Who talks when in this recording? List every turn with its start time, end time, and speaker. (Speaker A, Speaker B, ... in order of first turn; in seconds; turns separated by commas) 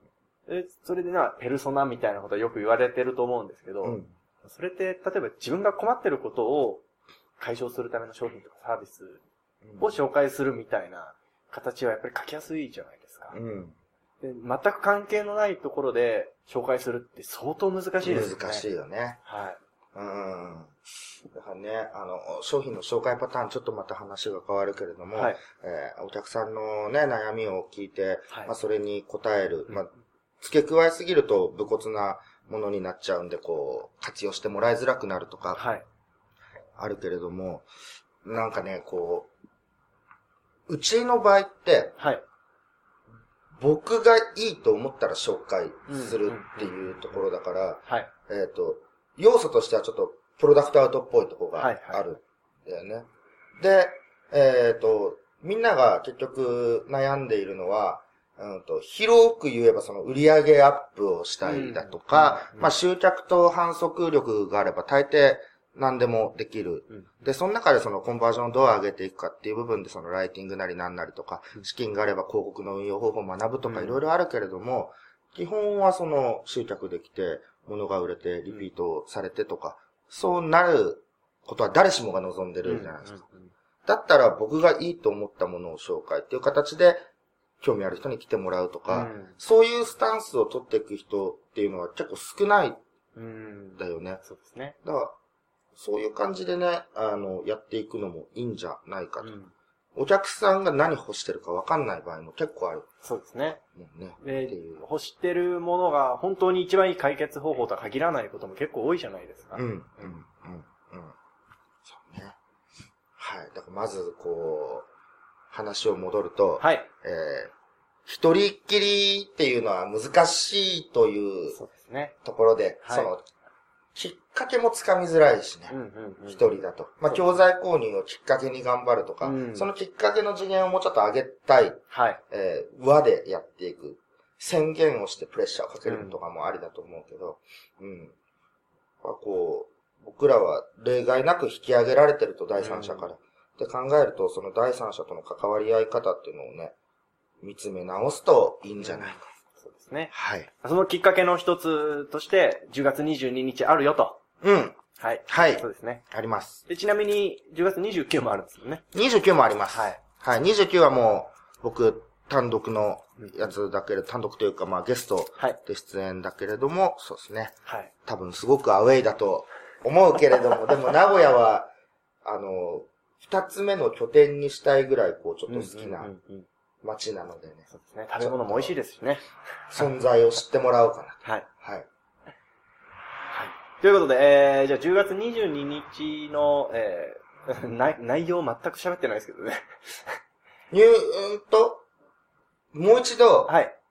Speaker A: 0.5-6.8, Speaker B: 3.8-4.1, Speaker A: 7.4-9.2, Speaker B: 9.6-9.9, Speaker A: 9.8-13.4, Speaker B: 13.3-13.8, Speaker A: 14.2-18.6, Speaker B: 18.0-19.2, Speaker A: 19.2-19.6, Speaker B: 19.9-20.7, Speaker B: 21.3-35.6, Speaker A: 25.1-25.4, Speaker A: 35.6-35.8, Speaker B: 36.8-37.6, Speaker B: 38.2-39.3, Speaker B: 40.7-41.9, Speaker A: 42.0-42.2, Speaker B: 43.6-53.1, Speaker A: 45.9-46.8, Speaker A: 47.9-48.1, Speaker A: 51.6-52.0, Speaker B: 53.6-83.2, Speaker A: 61.4-62.7, Speaker A: 73.7-74.0, Speaker A: 82.6-83.5, Speaker B: 83.9-87.0, Speaker B: 87.6-92.8, Speaker A: 88.9-89.4, Speaker A: 93.2-94.8, Speaker B: 93.8-94.2, Speaker B: 94.8-95.1, Speaker B: 95.7-99.3, Speaker A: 99.2-99.5, Speaker B: 100.0-102.9, Speaker A: 103.0-103.6, Speaker B: 103.7-104.8, Speaker A: 104.2-109.6, Speaker B: 109.5-111.1, Speaker B: 111.8-112.4, Speaker B: 113.2-114.9, Speaker B: 115.5-117.5, Speaker A: 116.6-116.9, Speaker B: 118.1-121.6, Speaker A: 121.5-122.1, Speaker B: 122.2-123.2, Speaker A: 122.8-123.1, Speaker B: 123.9-125.7, Speaker A: 125.7-126.4, Speaker B: 126.3-138.1, Speaker A: 127.1-127.4, Speaker A: 129.2-129.7, Speaker A: 131.9-132.2, Speaker A: 135.9-136.2, Speaker B: 139.0-146.7, Speaker A: 142.6-143.1, Speaker B: 147.4-149.2, Speaker A: 148.8-154.2, Speaker B: 150.1-150.5, Speaker B: 154.4-156.6, Speaker A: 155.0-156.0, Speaker A: 156.7-158.8, Speaker B: 158.9-171.7, Speaker A: 159.7-160.0, Speaker A: 163.2-163.5, Speaker B: 172.2-176.1, Speaker A: 175.5-176.4, Speaker B: 176.8-177.7, Speaker A: 177.7-179.2, Speaker B: 178.2-178.7, Speaker B: 179.7-181.9, Speaker A: 183.3-190.2, Speaker B: 190.7-191.8, Speaker B: 192.7-193.6, Speaker A: 193.4-193.7